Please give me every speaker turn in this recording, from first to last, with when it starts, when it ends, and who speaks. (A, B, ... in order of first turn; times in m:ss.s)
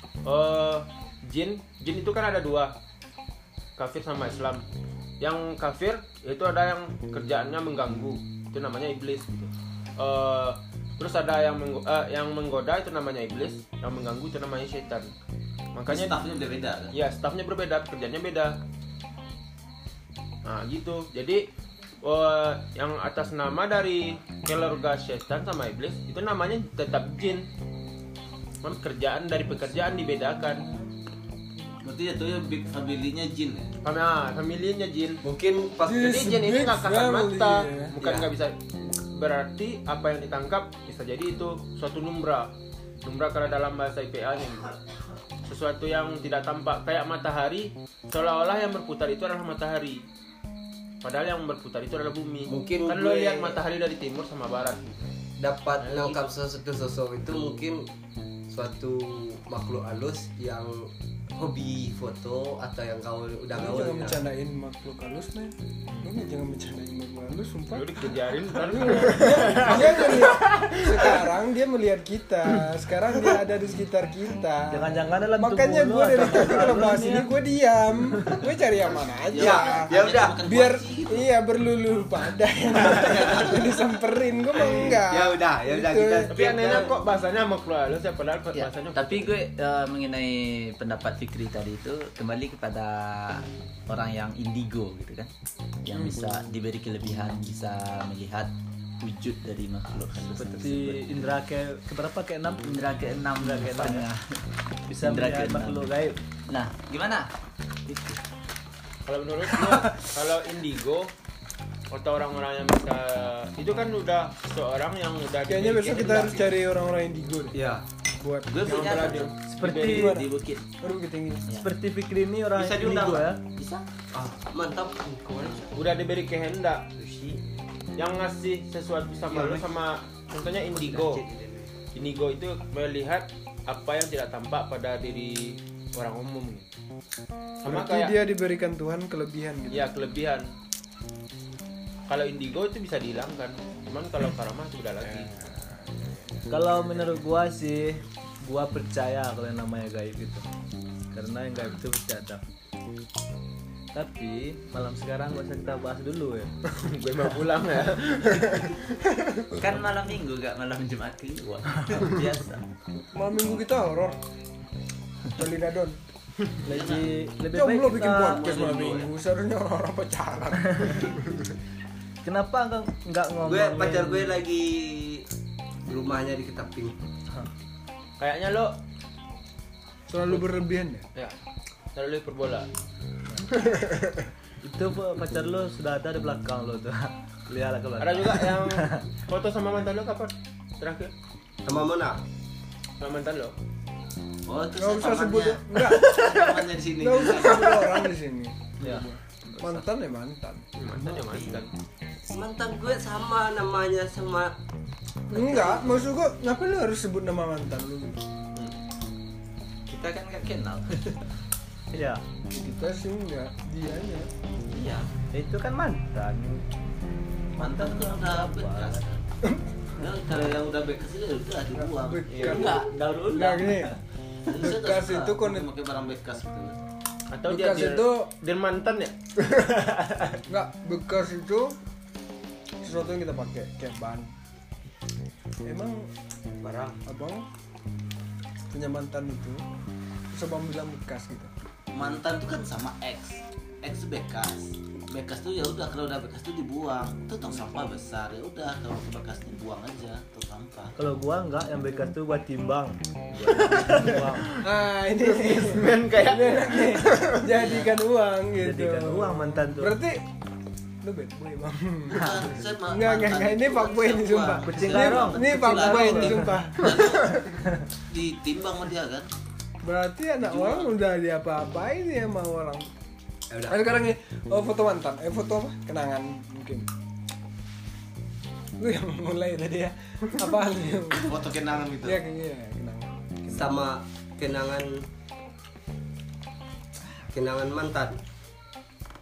0:00.2-0:02.7 A
0:03.8-0:04.6 A
0:05.2-0:15.1 A
0:15.7-0:16.2 A
0:15.9-0:16.9 B
0:16.9-0:18.6 A
0:20.4-0:21.4 A
0:22.0-0:27.5 A
0:28.6-0:30.6 A
0:31.8-0:33.7 B
0:33.8-0:35.2 A
0:35.2-0:36.2 C
0:35.8-0:38.0 D
0:35.9-0:42.5 A
0:38.0-0:38.3 C
0:43.0-0:44.7 A
0:45.4-0:50.0 A
0:51.0-0:55.0 A
0:52.5-0:53.6 C
0:55.4-0:57.8 C
0:55.8-0:56.2 A
0:58.5-1:04.2 C
1:03.5-1:26.3 D
1:07.7-1:10.9 A
1:14.7-1:17.3 E
1:19.3-1:21.3 B
1:19.4-1:20.4 C
1:24.6-1:26.9 C
1:26.3-1:29.3 A
1:28.5-1:35.3 F
1:35.8-1:41.4 F
1:35.9-1:36.2 D
1:40.2-1:44.1 E
1:42.6-1:44.4 F
1:44.9-1:46.2 E
1:44.9-1:45.9 F
1:46.5-1:47.3 F
1:47.9-1:48.2 F
1:49.0-1:51.1 A
1:51.9-1:56.6 A
1:55.5-1:57.6 D
1:57.5-1:57.8 C
1:58.2-1:58.8 D
1:58.5-2:00.6 F
1:58.6-2:00.1 A
1:58.9-1:59.2 B
1:59.5-2:00.2 E
1:59.8-2:00.3 D
2:00.8-2:01.5 D
2:01.6-2:03.4 E
2:02.6-2:03.2 C
2:03.5-2:03.8 F
2:04.1-2:05.8 C
2:05.7-2:06.9 A
2:07.0-2:07.4 C
2:08.0-2:11.2 A
2:09.3-2:09.6 C
2:10.9-2:11.7 C
2:11.9-2:16.6 A
2:17.6-2:18.2 A
2:17.6-2:19.9 D
2:19.7-2:20.5 A
2:22.1-2:25.3 A
2:25.0-2:27.0 D
2:26.5-2:30.4 E
2:31.1-2:32.4 E
2:33.9-2:36.5 E
2:36.8-2:38.8 A
2:39.1-2:39.4 D
2:39.5-2:42.6 F
2:43.1-2:44.2 D
2:45.3-2:46.0 D
2:46.6-2:47.1 B
2:46.7-2:48.4 E
2:46.7-2:51.5 D
2:48.2-2:49.1 B
2:52.2-2:54.4 E
2:53.4-2:55.2 C
2:55.9-2:57.0 C
2:58.2-2:58.8 A
3:00.1-3:01.1 D
3:01.9-3:02.7 A
3:03.7-3:04.1 D
3:04.6-3:09.0 E
3:08.0-3:11.1 A
3:11.6-3:12.2 C
3:13.0-3:13.5 A
3:14.4-3:17.9 B
3:14.8-3:20.9 D
3:20.8-3:21.7 A
3:22.3-3:24.5 C
3:25.3-3:28.3 D
3:25.3-3:25.7 C
3:29.9-3:31.2 F
3:31.9-3:32.2 E
3:32.5-3:34.3 D
3:34.7-3:35.1 F
3:35.3-3:36.6 E
3:37.6-3:39.0 E
3:37.6-3:39.2 B
3:40.0-3:42.9 B
3:41.7-3:43.9 D
3:42.3-3:42.6 A
3:42.4-3:44.0 F
3:44.5-3:46.8 B
3:44.5-3:45.7 D
3:47.3-3:49.1 A
3:47.5-3:48.3 D
3:49.4-3:49.9 D
3:50.4-3:51.8 D
3:52.8-3:54.3 D
3:55.6-3:56.1 D
3:56.6-3:57.0 C
3:57.0-3:57.5 D
3:58.7-3:59.6 D
4:00.3-4:01.5 D
4:01.9-4:10.9 B
4:11.0-4:14.6 E
4:14.6-4:20.2 D
4:15.2-4:17.6 A
4:18.6-4:20.0 E
4:21.0-4:27.5 D
4:22.1-4:29.3 B
4:24.6-4:26.6 E
4:29.8-4:32.9 D
4:33.5-4:33.8 C
4:33.7-4:36.9 D
4:38.8-4:43.7 D
4:41.1-4:42.2 B
4:43.5-4:45.0 C
4:47.3-4:48.2 C